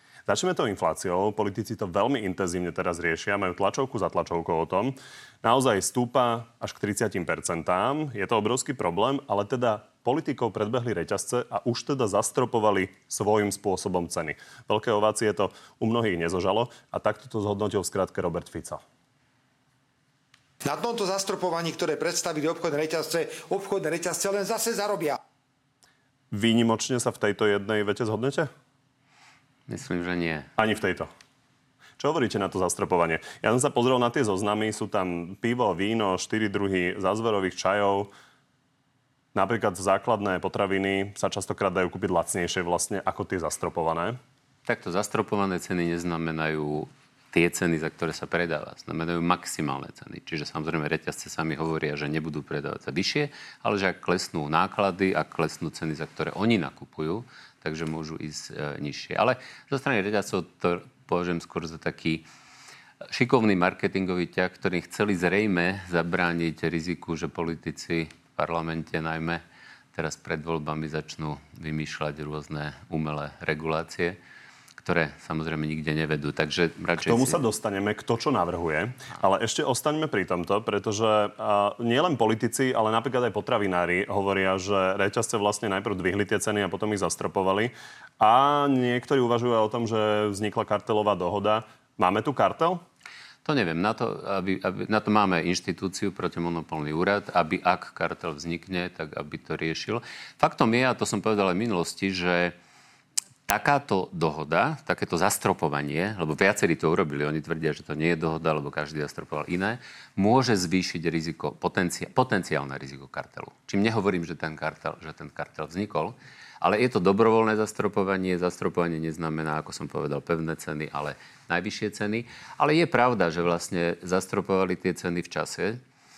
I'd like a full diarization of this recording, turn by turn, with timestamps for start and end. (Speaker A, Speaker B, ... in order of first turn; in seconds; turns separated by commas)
Speaker A: 0.3-18.8, Speaker B: 20.6-25.2, Speaker A: 26.3-28.5, Speaker C: 29.7-30.5, Speaker A: 30.6-31.1, Speaker A: 32.0-38.1, Speaker A: 39.3-44.2, Speaker C: 44.7-62.3, Speaker C: 63.1-69.4, Speaker C: 69.9-74.2, Speaker C: 74.8-77.4, Speaker A: 77.0-92.8, Speaker C: 93.5-102.5, Speaker C: 103.5-125.8